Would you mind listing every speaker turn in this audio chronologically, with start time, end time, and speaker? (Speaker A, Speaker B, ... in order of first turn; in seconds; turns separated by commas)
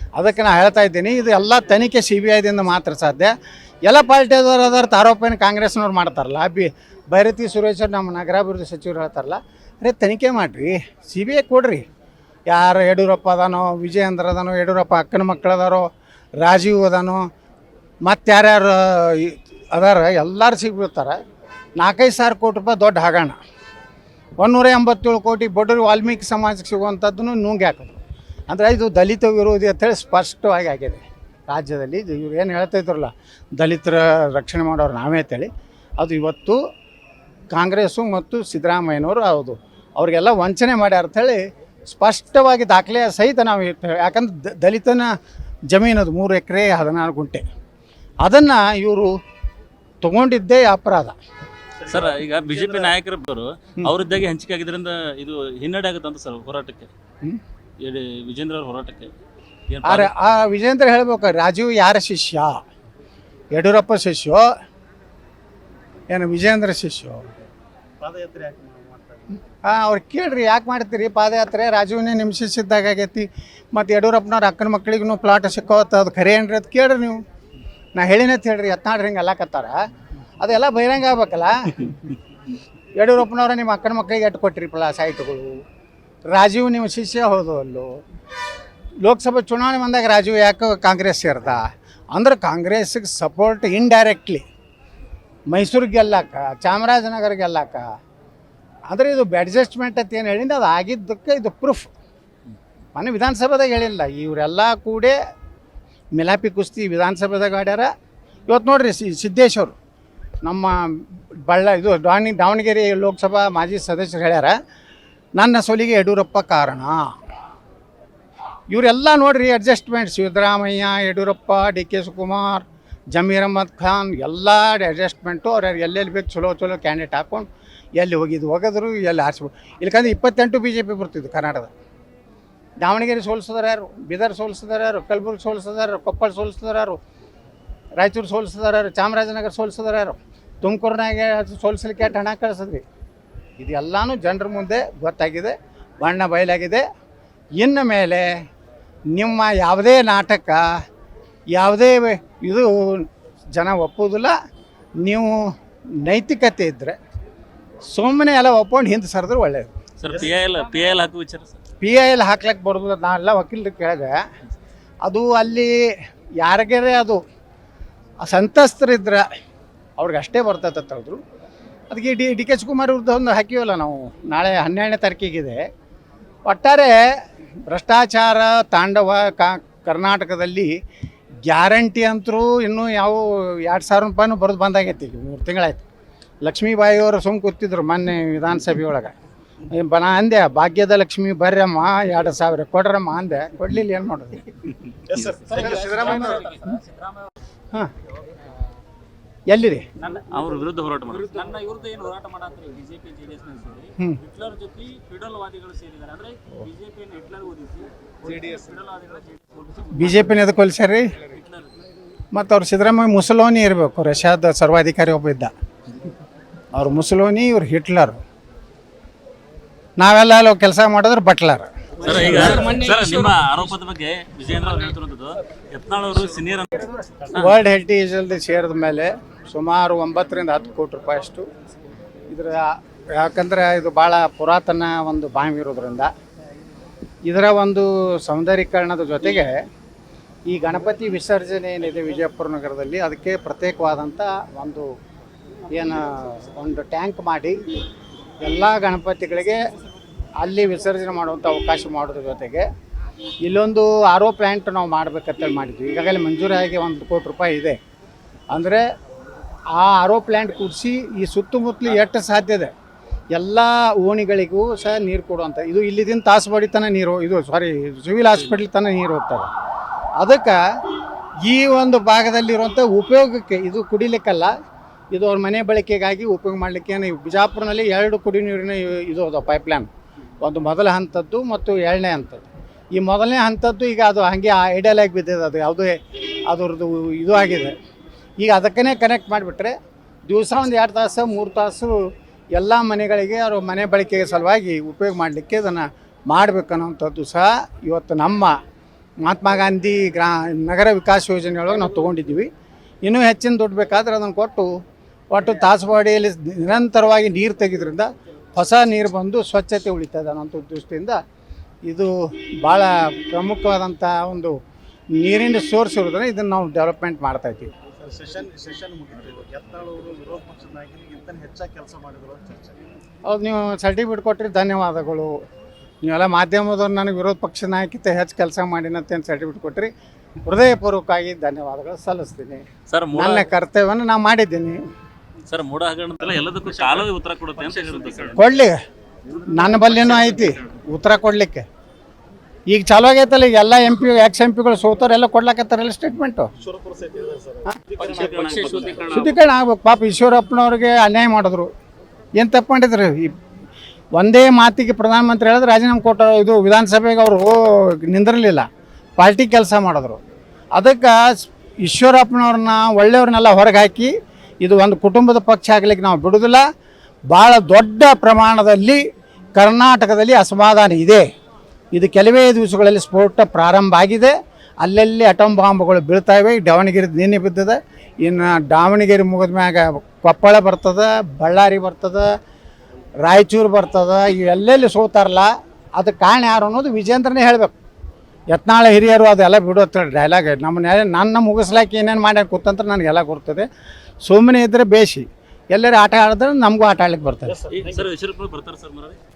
Speaker A: 0.1-3.3, Speaker A: 3.8-11.8, Speaker A: 12.5-17.2, Speaker A: 18.0-21.2, Speaker A: 21.8-23.4, Speaker A: 24.4-36.6, Speaker A: 37.5-45.1, Speaker A: 45.7-47.4, Speaker A: 48.2-49.1, Speaker A: 50.0-51.1, Speaker B: 51.9-56.9, Speaker C: 52.5-52.9, Speaker B: 57.8-59.1, Speaker B: 59.7-60.1, Speaker A: 59.8-62.6, Speaker A: 63.5-64.5, Speaker A: 66.1-67.2, Speaker C: 68.0-69.4, Speaker A: 69.6-77.2, Speaker A: 77.9-79.8, Speaker A: 80.4-82.0, Speaker A: 82.9-85.5, Speaker A: 86.3-87.9, Speaker A: 89.0-94.4, Speaker A: 95.5-97.8, Speaker A: 98.9-101.9, Speaker A: 102.9-105.2, Speaker A: 106.1-107.9, Speaker A: 108.5-109.7, Speaker A: 110.4-114.6, Speaker A: 115.3-117.0, Speaker A: 118.7-131.7, Speaker A: 132.8-137.0, Speaker A: 138.0-142.8, Speaker A: 143.6-146.8, Speaker A: 147.6-148.4, Speaker A: 149.1-150.6, Speaker A: 151.5-154.3, Speaker A: 155.0-155.4, Speaker A: 156.0-156.9, Speaker A: 157.9-159.7, Speaker B: 160.0-161.6, Speaker C: 160.0-160.3, Speaker A: 161.8-164.2, Speaker A: 165.0-165.8, Speaker A: 166.4-167.2, Speaker A: 168.2-169.2, Speaker A: 170.0-171.2, Speaker A: 171.9-175.6, Speaker A: 176.4-180.7, Speaker A: 181.4-185.8, Speaker A: 186.4-189.1, Speaker A: 189.7-194.5, Speaker C: 195.1-196.5, Speaker A: 195.4-196.5, Speaker D: 195.8-197.3, Speaker A: 199.5-199.9, Speaker D: 200.0-200.2, Speaker B: 200.3-201.3, Speaker D: 201.3-210.1, Speaker C: 208.2-208.8, Speaker A: 209.9-211.1, Speaker D: 211.3-211.6, Speaker A: 212.3-215.5, Speaker A: 216.7-218.2, Speaker A: 220.0-221.7, Speaker D: 222.0-223.3, Speaker B: 222.0-227.6, Speaker A: 227.3-231.4, Speaker A: 232.3-236.1, Speaker A: 237.2-239.5, Speaker A: 240.5-244.9, Speaker A: 245.7-247.5, Speaker A: 248.4-249.6, Speaker A: 250.4-252.7, Speaker A: 253.4-257.8, Speaker A: 258.5-258.8, Speaker A: 259.7-262.7, Speaker A: 263.3-269.5, Speaker A: 270.2-270.6, Speaker A: 271.4-274.5, Speaker A: 275.1-279.9, Speaker A: 280.4-287.7, Speaker A: 288.4-289.7, Speaker A: 290.3-298.5, Speaker A: 299.2-302.5, Speaker A: 303.0-304.7, Speaker A: 305.3-311.2, Speaker A: 311.9-314.5, Speaker A: 315.1-317.7, Speaker C: 317.9-322.8, Speaker A: 323.2-325.3, Speaker A: 326.0-329.9, Speaker A: 330.4-334.8, Speaker B: 332.9-333.5, Speaker B: 335.5-338.4, Speaker A: 338.3-338.8, Speaker A: 339.4-341.6, Speaker B: 339.9-340.2, Speaker A: 342.7-346.5, Speaker C: 346.6-349.1, Speaker B: 348.0-349.4, Speaker A: 349.0-351.7, Speaker A: 352.4-353.3, Speaker A: 354.1-358.7, Speaker A: 359.2-360.2, Speaker A: 360.8-366.6, Speaker A: 367.3-369.0, Speaker A: 369.6-371.2, Speaker A: 371.9-382.3, Speaker A: 383.2-387.7, Speaker A: 388.5-393.7, Speaker A: 394.2-397.6, Speaker C: 397.5-398.1, Speaker B: 397.7-399.2